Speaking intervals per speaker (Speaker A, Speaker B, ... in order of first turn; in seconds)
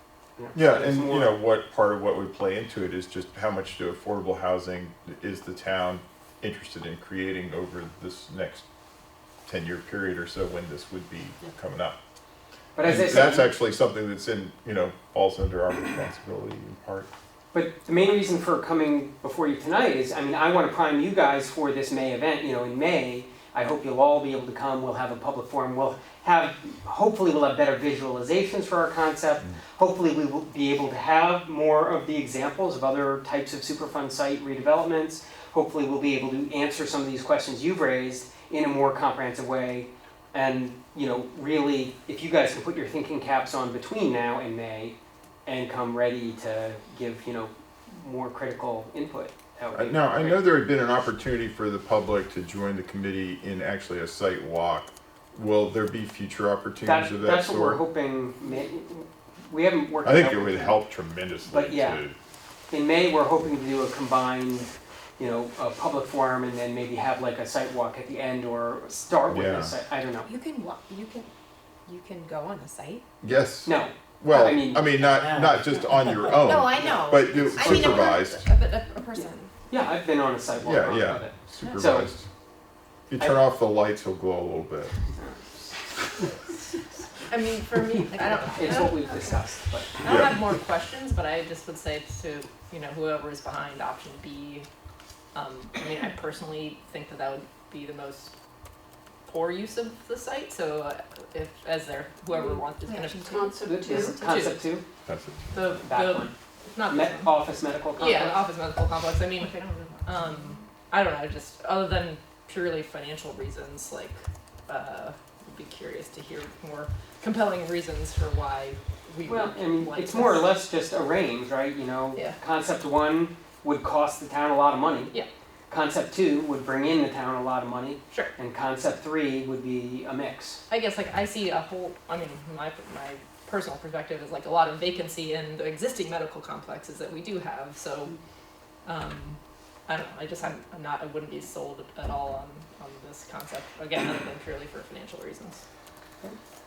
Speaker A: 0.4-1.4, 12.8-13.5, 17.5-50.4, 56.8-60.8, 61.5-62.0, 62.7-70.3, 73.7-77.0, 79.7-82.1, 85.2-86.3, 88.5-90.1, 103.6-104.8, 105.8-106.3, 106.9-108.4, 119.2-125.1, 125.7-130.6
Speaker B: 0.5-8.7, 9.5-12.0, 12.8-17.1, 49.7-57.8, 60.0-62.1, 69.3-69.8, 73.2-78.5, 80.6-82.3, 83.1-85.0, 90.0-90.3, 105.1-105.5
Speaker C: 70.3-71.3, 71.9-73.0, 75.2-79.2, 88.5-89.4, 102.3-104.4, 109.4-110.7
Speaker D: 77.9-79.5, 87.3-89.2, 90.0-94.7, 95.3-98.3, 99.2-104.6, 105.5-107.3, 108.0-120.5, 130.7-138.2, 138.8-145.6